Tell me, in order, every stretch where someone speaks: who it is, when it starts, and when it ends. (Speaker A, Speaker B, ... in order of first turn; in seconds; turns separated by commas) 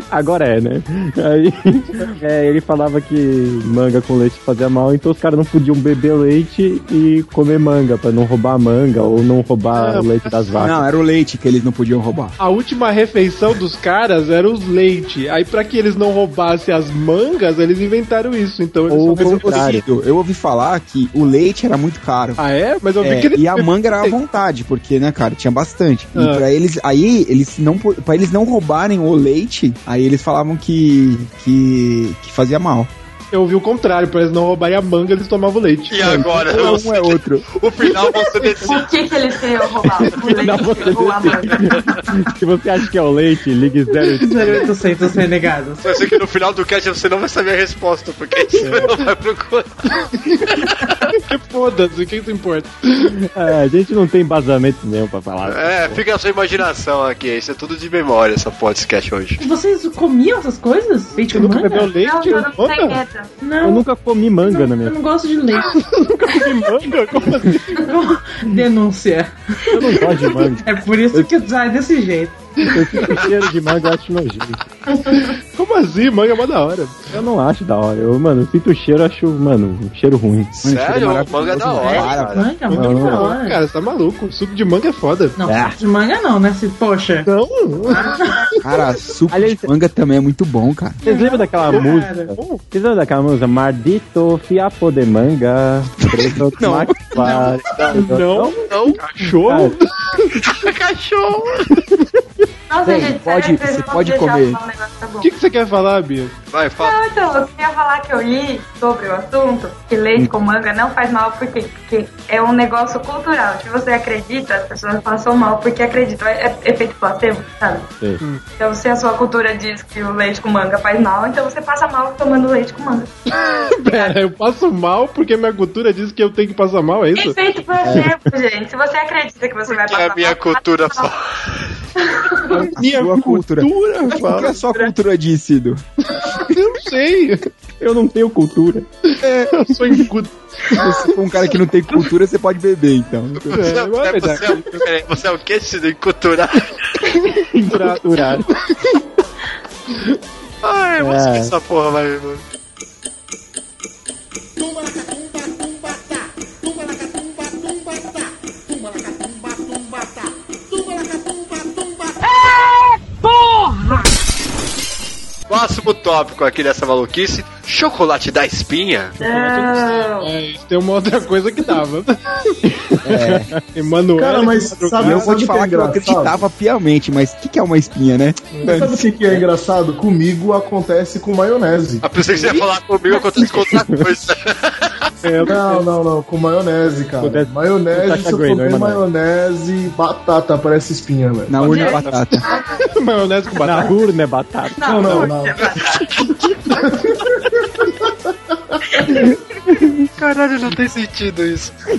Speaker A: 0.1-10.8, Speaker B: 9.7-10.2, Speaker C: 10.5-12.3, Speaker B: 12.4-19.6, Speaker A: 18.9-19.8, Speaker C: 19.1-22.4, Speaker B: 22.4-24.2, Speaker C: 23.0-32.9, Speaker B: 26.1-26.4, Speaker B: 33.3-36.6, Speaker D: 35.9-38.9, Speaker C: 36.2-37.4, Speaker B: 38.4-38.7, Speaker E: 38.6-41.7, Speaker A: 40.2-44.6, Speaker F: 44.2-45.9, Speaker D: 45.8-49.9, Speaker A: 48.6-48.9, Speaker D: 50.5-50.9, Speaker B: 51.2-53.2, Speaker A: 53.3-56.0, Speaker D: 55.5-59.4, Speaker F: 59.4-61.9, Speaker B: 61.2-63.0, Speaker E: 61.9-63.3, Speaker F: 63.4-63.8, Speaker A: 63.6-65.0, Speaker F: 64.4-65.8, Speaker B: 65.8-67.8, Speaker F: 67.8-69.4, Speaker A: 69.7-71.3, Speaker F: 70.6-72.4, Speaker A: 72.7-74.6, Speaker B: 75.5-77.1, Speaker A: 77.1-80.6, Speaker D: 80.6-82.5, Speaker C: 80.6-82.4, Speaker F: 81.8-83.6, Speaker B: 82.6-85.4, Speaker A: 82.7-83.3, Speaker F: 85.4-87.3, Speaker A: 85.4-85.8, Speaker B: 87.2-88.1, Speaker F: 87.8-88.4, Speaker C: 88.6-91.0, Speaker A: 89.3-89.7, Speaker F: 91.0-92.3, Speaker A: 91.0-98.5, Speaker B: 91.7-92.6, Speaker C: 96.6-97.6, Speaker B: 97.9-99.9, Speaker D: 98.7-99.2, Speaker A: 99.4-99.7, Speaker D: 100.5-101.7, Speaker E: 102.7-105.3, Speaker C: 102.8-104.6, Speaker B: 105.2-106.3, Speaker D: 106.5-107.0, Speaker E: 106.8-117.9, Speaker E: 118.6-123.1, Speaker B: 123.7-127.4, Speaker E: 123.9-124.2, Speaker E: 127.2-131.1, Speaker C: 127.8-128.1, Speaker D: 129.7-131.7, Speaker E: 132.0-132.7, Speaker B: 132.5-134.6, Speaker C: 132.8-135.8, Speaker E: 134.1-134.9, Speaker B: 136.2-137.4, Speaker A: 137.8-138.8, Speaker C: 139.2-139.5, Speaker B: 139.4-140.9, Speaker C: 140.8-143.6, Speaker B: 143.5-144.8, Speaker D: 143.5-146.7, Speaker A: 147.5-148.5, Speaker D: 150.6-152.4, Speaker A: 151.0-151.5, Speaker D: 165.5-169.2, Speaker E: 169.2-170.3, Speaker B: 169.2-172.5, Speaker C: 173.1-173.5, Speaker A: 173.1-173.6, Speaker B: 173.1-175.3, Speaker G: 174.2-176.4, Speaker C: 175.0-179.0, Speaker B: 178.5-178.9, Speaker G: 178.6-182.1, Speaker D: 182.0-185.0, Speaker B: 182.4-182.7, Speaker E: 183.1-183.7, Speaker B: 185.2-185.9, Speaker G: 185.4-191.7, Speaker A: 187.2-189.0, Speaker C: 191.5-192.4, Speaker E: 191.6-192.8, Speaker B: 191.8-192.2, Speaker B: 192.8-193.9, Speaker A: 193.6-195.2, Speaker E: 194.8-196.2, Speaker G: 194.8-195.6, Speaker D: 195.6-196.3, Speaker G: 196.8-197.2, Speaker E: 198.9-199.3, Speaker D: 200.2-201.7